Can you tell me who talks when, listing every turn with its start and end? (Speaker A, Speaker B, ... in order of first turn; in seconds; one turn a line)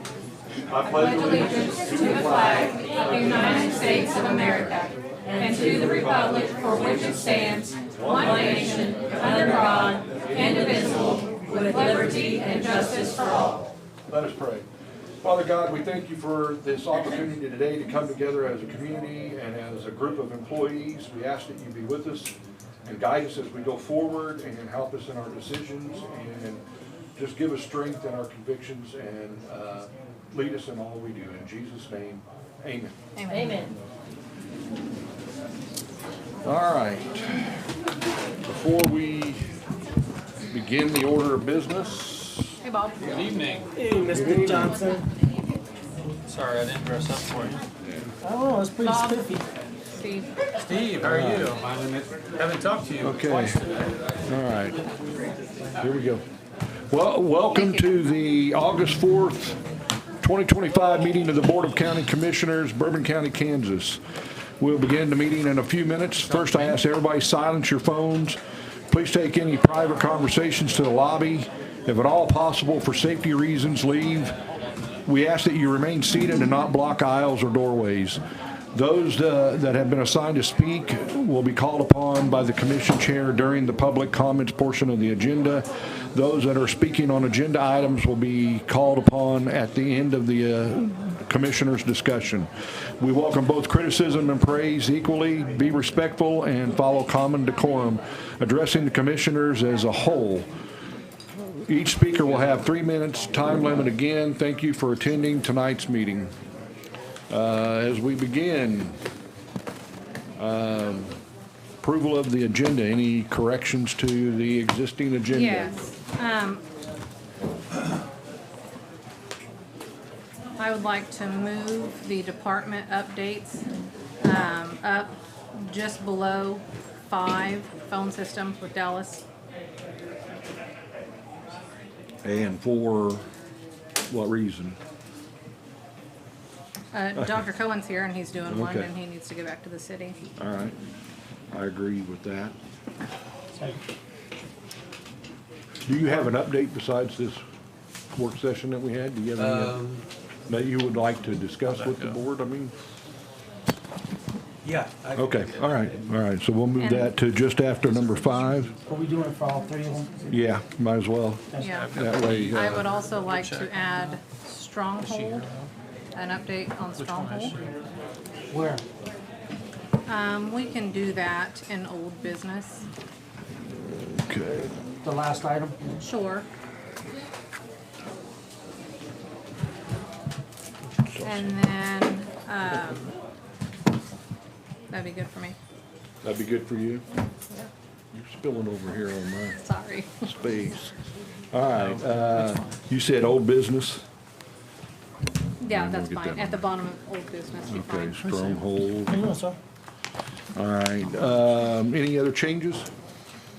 Speaker A: 0.7-2.7
Speaker B: 0.8-13.7
Speaker A: 7.9-8.8
Speaker A: 14.1-14.7
Speaker A: 15.2-22.3
Speaker A: 22.9-26.6
Speaker A: 27.2-33.0
Speaker B: 33.1-33.7
Speaker A: 36.4-37.6
Speaker A: 38.4-39.5
Speaker A: 40.5-42.6
Speaker B: 42.6-43.4
Speaker C: 43.0-43.7
Speaker D: 43.8-45.1
Speaker A: 44.2-44.8
Speaker C: 46.3-47.6
Speaker D: 48.2-49.5
Speaker B: 48.8-49.4
Speaker B: 49.9-50.4
Speaker C: 50.6-53.6
Speaker A: 51.0-51.5
Speaker A: 53.0-53.7
Speaker A: 54.3-54.8
Speaker A: 55.8-56.2
Speaker A: 56.9-59.6
Speaker B: 57.5-58.0
Speaker A: 60.2-64.0
Speaker A: 64.6-74.3
Speaker C: 66.2-66.8
Speaker A: 75.0-78.2
Speaker A: 78.7-92.5
Speaker A: 93.0-100.5
Speaker A: 101.5-106.3
Speaker A: 107.3-109.0
Speaker A: 110.4-111.2
Speaker A: 111.8-115.8
Speaker B: 115.3-116.6
Speaker B: 120.6-123.7
Speaker B: 124.2-129.2
Speaker A: 132.2-133.3
Speaker A: 134.1-134.8
Speaker B: 136.9-140.2
Speaker A: 138.5-138.9
Speaker A: 140.4-140.8
Speaker A: 141.5-142.6
Speaker A: 145.9-147.4
Speaker A: 148.1-149.8
Speaker C: 149.4-150.1
Speaker A: 150.5-152.7
Speaker C: 151.7-152.2
Speaker D: 154.7-155.1
Speaker C: 154.8-155.8
Speaker A: 155.1-158.7
Speaker B: 156.8-157.2
Speaker C: 157.8-158.8
Speaker D: 158.9-160.4
Speaker A: 160.3-162.9
Speaker D: 161.5-161.8
Speaker B: 161.5-165.5
Speaker C: 161.6-164.1
Speaker C: 165.0-165.7
Speaker B: 166.1-167.6
Speaker C: 166.9-167.7
Speaker D: 168.5-168.8
Speaker B: 170.1-172.9
Speaker A: 173.7-174.8
Speaker D: 175.0-176.0
Speaker B: 176.0-176.5
Speaker A: 181.1-181.6
Speaker B: 181.2-183.1
Speaker B: 184.9-185.6
Speaker A: 186.2-187.1
Speaker A: 188.1-189.6
Speaker B: 189.6-190.2
Speaker A: 190.2-190.9
Speaker A: 191.5-194.1
Speaker C: 191.9-192.4
Speaker B: 195.6-198.3
Speaker A: 195.7-196.7
Speaker A: 197.7-199.2
Speaker D: 199.1-199.6
Speaker A: 200.6-202.9